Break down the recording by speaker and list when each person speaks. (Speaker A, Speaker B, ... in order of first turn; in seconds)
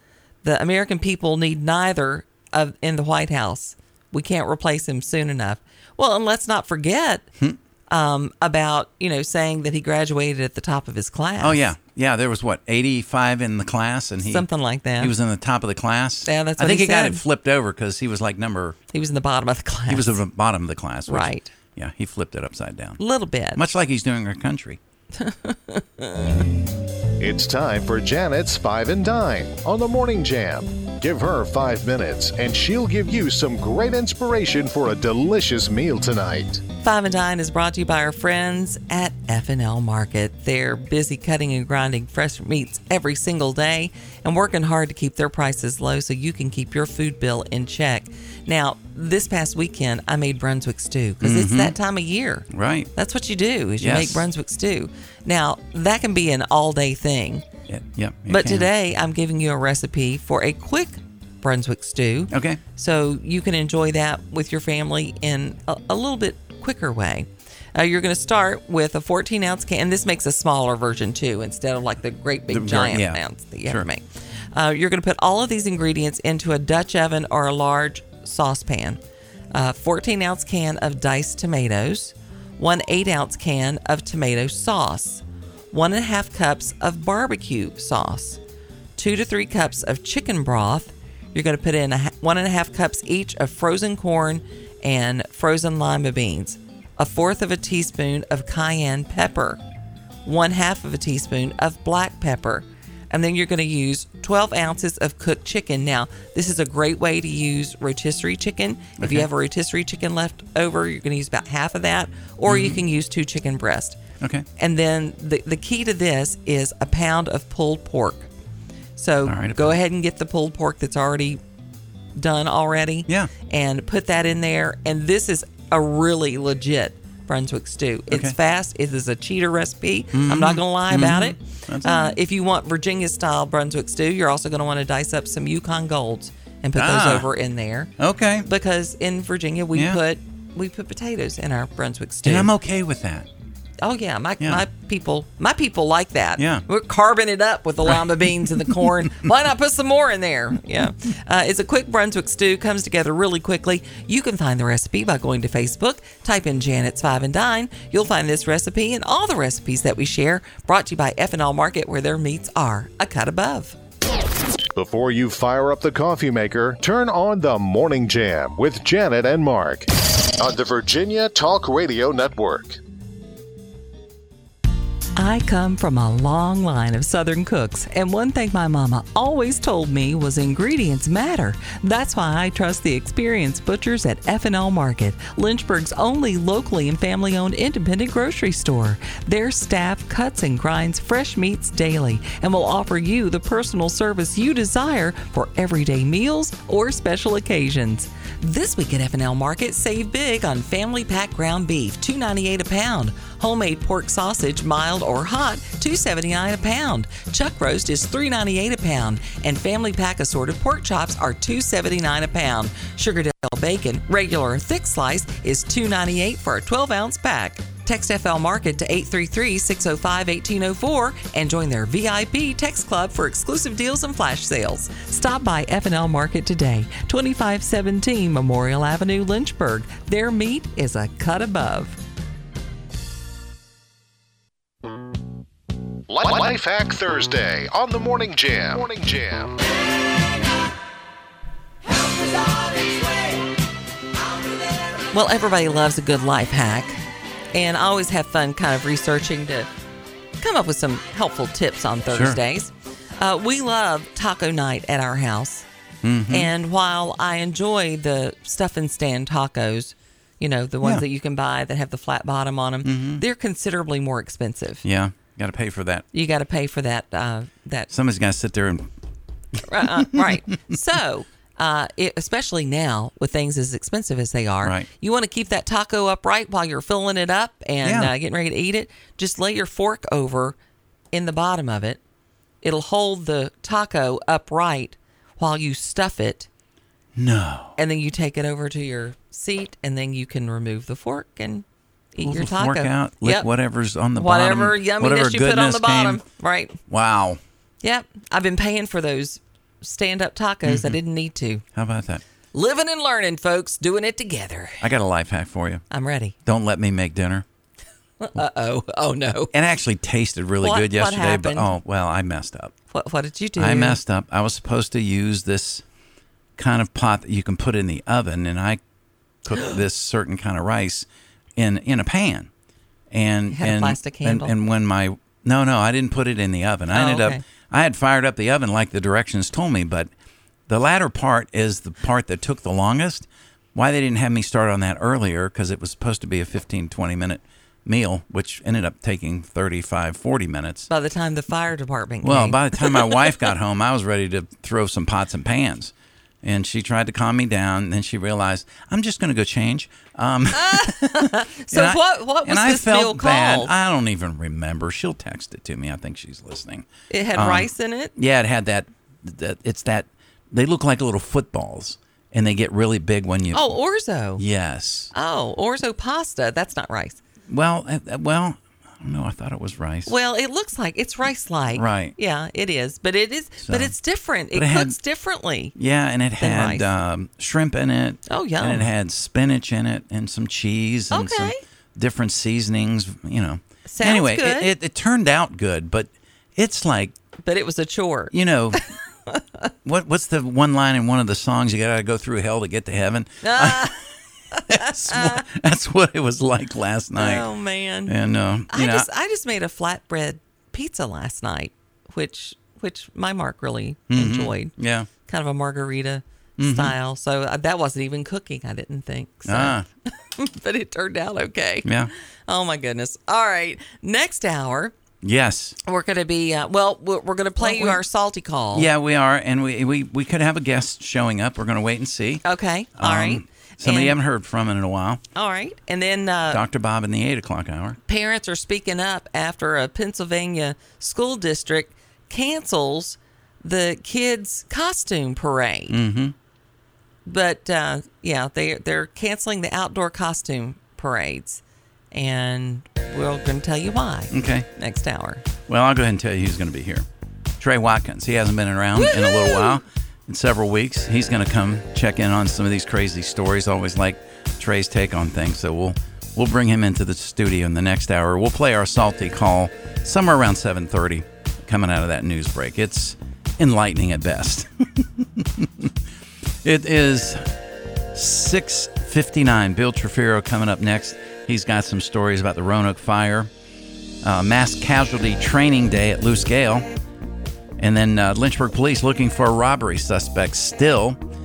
Speaker A: 0.4-7.3, 7.9-11.7, 14.2-15.1, 16.3-17.2, 18.9-20.2, 21.1-21.5, 23.0-23.6, 25.2-26.4, 36.8-57.5, 58.3-79.0, 79.5-88.4, 89.0-99.6, 100.2-114.0, 114.6-118.3, 119.0-121.4, 122.1-137.9, 138.4-142.5, 143.8-163.8, 175.2-232.0, 245.1-247.0, 247.5-249.7, 250.4-255.7, 256.3-264.8, 266.1-267.9, 269.6-280.6, 281.1-282.0, 282.6-286.5, 287.8-293.5, 294.1-296.8, 297.8-301.6, 302.5-304.8, 305.9-306.3, 308.2-309.5, 310.6-311.7, 312.9-314.0, 323.5-324.5, 326.9-327.4, 340.9-343.5, 350.5-353.7, 357.1-358.1, 363.5-364.4, 365.1-367.2, 370.1-375.7, 376.4-376.9, 378.3-378.9, 381.1-381.6, 383.9-384.7, 387.4-389.7, 393.4-393.9, 394.5-395.4, 397.1-398.1, 398.7-404.7, 405.2-414.9, 415.8-418.9, 422.4-424.1, 425.4-426.6, 428.1-436.0, 437.2-445.4, 448.9-449.8
Speaker B: 11.4-14.5, 15.0-18.8, 19.9-23.0, 23.5-24.8, 51.2-51.8, 52.5-52.9, 53.8-54.2, 57.7-58.7, 62.3-62.6, 72.5-73.8, 109.0-109.3, 112.5-112.8, 114.2-114.5, 119.2-119.8, 128.1-128.3, 130.1-132.2, 136.8-137.3, 138.0-138.5, 139.7-140.0, 142.2-143.3, 144.4-144.6, 146.4-146.6, 147.8-149.2, 252.1-252.4, 256.0-256.5, 262.8-263.2, 264.8-266.1, 267.9-268.9, 269.9-270.4, 274.6-274.9, 277.8-278.1, 287.1-287.8, 292.2-296.2, 296.9-297.4, 300.6-301.0, 301.7-302.2, 304.8-305.8, 306.4-307.4, 309.5-312.7, 313.6-315.8, 316.6-318.8, 319.4-322.5, 323.1-330.1, 330.7-340.9, 342.2-363.8, 364.4-365.1, 367.5-370.1, 371.7-372.1, 373.6-373.9, 374.5-375.0, 375.7-387.1, 388.3-388.8, 389.8-394.0, 394.7-397.5, 398.1-399.1, 404.1-405.1, 406.6-406.9, 409.4-409.8, 411.8-412.1, 415.2-415.8, 417.6-418.0, 418.7-422.4, 422.9-425.2, 426.5-428.0, 435.9-436.3, 444.3-444.6, 445.7-447.1, 447.6-465.9, 466.6-467.5, 468.1-473.5, 474.2-476.9, 477.8-481.2
Speaker C: 27.2-36.6, 164.7-172.8, 236.1-239.5